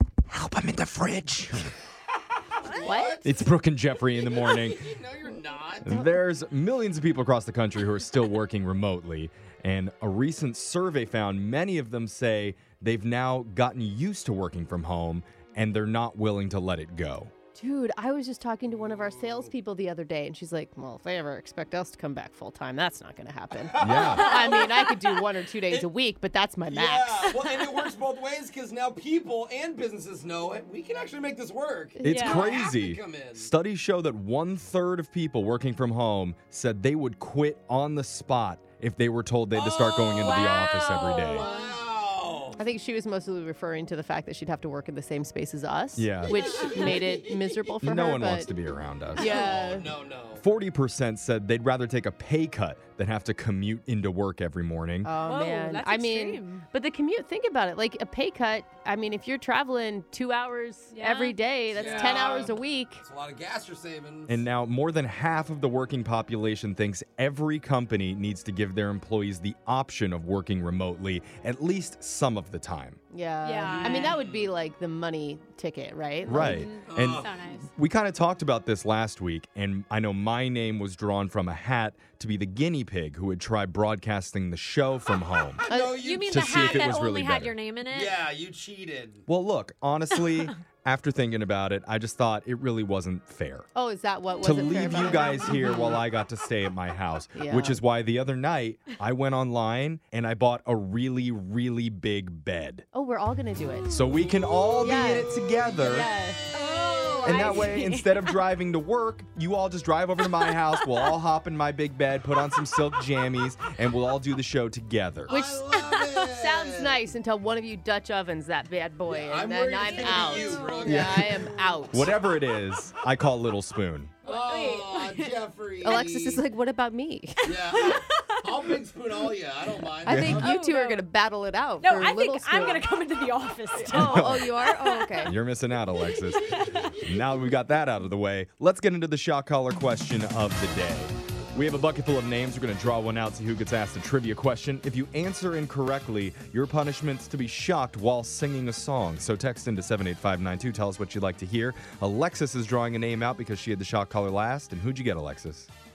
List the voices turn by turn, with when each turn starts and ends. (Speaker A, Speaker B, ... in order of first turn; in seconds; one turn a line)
Speaker A: 0.3-1.8
Speaker B: 2.5-3.4
Speaker C: 2.8-3.2
Speaker A: 3.2-4.9
Speaker B: 4.1-6.1
Speaker A: 5.8-17.3
Speaker C: 17.6-27.7
Speaker B: 18.7-19.5
Speaker B: 23.6-25.9
Speaker A: 23.8-24.3
Speaker D: 23.9-24.7
Speaker B: 26.6-33.5
Speaker C: 32.0-32.5
Speaker A: 32.0-41.4
Speaker D: 32.0-32.6
Speaker B: 39.5-40.5
Speaker D: 40.0-41.7
Speaker B: 41.2-42.6
Speaker C: 42.6-48.5
Speaker A: 46.0-46.4
Speaker B: 46.2-47.9
Speaker A: 47.8-49.7
Speaker C: 49.1-49.9
Speaker B: 49.1-50.4
Speaker A: 50.4-55.1
Speaker C: 55.0-63.0
Speaker D: 55.2-56.6
Speaker D: 60.9-62.2
Speaker B: 61.7-64.4
Speaker A: 64.3-73.0
Speaker C: 73.1-76.6
Speaker D: 73.4-74.2
Speaker B: 73.6-74.5
Speaker A: 76.3-85.6
Speaker D: 76.3-77.7
Speaker B: 76.8-77.4
Speaker B: 85.5-86.9
Speaker C: 85.7-86.0
Speaker D: 85.9-88.1
Speaker A: 86.3-87.5
Speaker B: 87.9-89.2
Speaker A: 89.3-93.7
Speaker C: 93.7-96.0
Speaker A: 94.4-102.8
Speaker C: 97.3-97.8
Speaker C: 102.9-103.9
Speaker A: 103.9-106.1
Speaker C: 104.8-106.4
Speaker D: 106.5-108.4
Speaker A: 107.2-115.3
Speaker C: 107.2-107.7
Speaker D: 110.7-111.1
Speaker B: 115.3-117.0
Speaker C: 115.3-115.6
Speaker D: 115.7-116.2
Speaker C: 116.2-122.2
Speaker B: 119.0-121.8
Speaker D: 119.8-121.2
Speaker A: 120.8-121.2
Speaker A: 121.9-124.1
Speaker D: 124.2-126.0
Speaker B: 124.2-126.5
Speaker C: 125.8-127.5
Speaker B: 127.5-130.5
Speaker D: 127.8-128.7
Speaker C: 130.0-132.9
Speaker A: 130.1-130.4
Speaker D: 130.2-131.0
Speaker D: 131.8-135.3
Speaker C: 133.8-135.3
Speaker A: 133.8-134.6
Speaker A: 135.2-155.7
Speaker D: 136.3-136.9